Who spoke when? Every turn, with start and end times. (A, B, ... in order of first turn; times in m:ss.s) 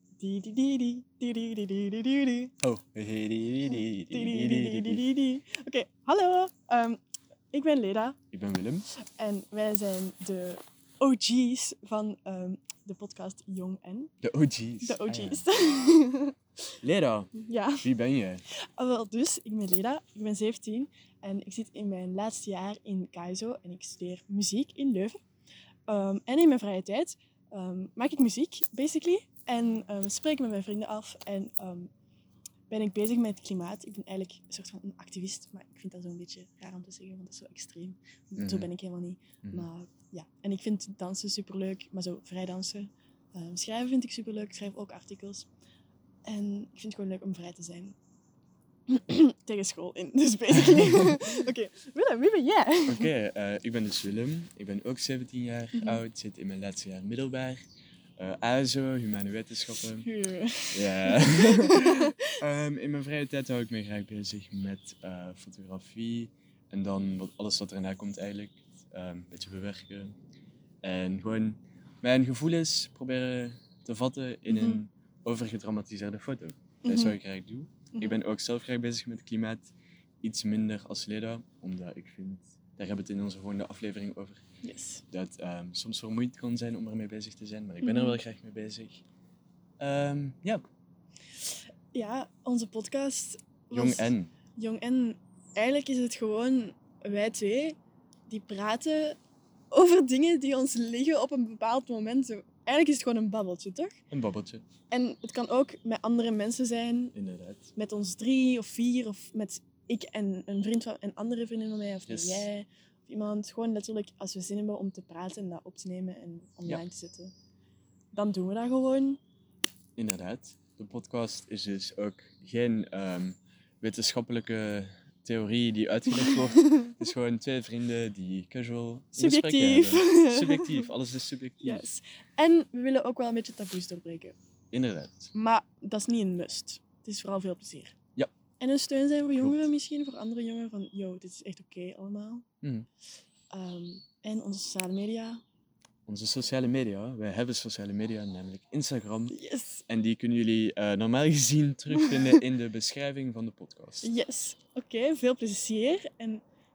0:00.2-0:02.5 A
0:02.6-0:05.0 B
0:04.1-0:07.0 A
0:07.5-0:08.2 A
0:08.3-0:08.9 B
0:09.2-0:14.1 A
0:14.2-0:15.4 B
0:14.8-0:16.4 A
0:16.8-0:18.4 B
0:17.4-0:17.9 A
0:18.8-0:25.2 A
0:25.9-0:31.9 A
0:32.7-0:45.5 A
0:38.4-0:38.7 B
0:46.2-0:48.0 A
0:48.9-0:53.1 A
0:50.6-0:51.0 B
0:52.9-0:57.6 B
0:55.7-0:56.0 A
0:58.2-1:00.1 B
1:00.0-1:02.3 A
1:00.7-1:10.1 B
1:10.8-1:19.7 B
1:14.5-1:14.8 A
1:16.8-1:17.2 A
1:17.9-1:18.2 A
1:20.2-1:24.4 B
1:24.6-1:25.0 A
1:25.1-1:29.0 B
1:27.8-1:28.2 A
1:29.8-1:30.6 B
1:31.9-1:37.8 A
1:33.7-1:34.3 B
1:38.3-1:39.2 A
1:39.7-1:44.0 A
1:44.1-1:44.6 B
1:44.9-1:47.2 A
1:47.1-1:47.7 B
1:47.7-1:57.3 A
1:52.1-1:52.5 B
1:58.1-1:59.2 A
2:00.0-2:11.9 B
2:06.1-2:06.9 A
2:09.1-2:10.9 A
2:11.6-2:14.4 A
2:14.7-2:15.3 B
2:15.3-2:18.0 A
2:18.6-2:22.4 A
2:19.4-2:19.6 B
2:22.6-2:22.9 B
2:23.5-2:25.4 A
2:26.1-2:29.4 B
2:29.3-2:29.8 A
2:29.9-2:34.1 B
2:31.9-2:32.4 A
2:34.0-2:36.4 A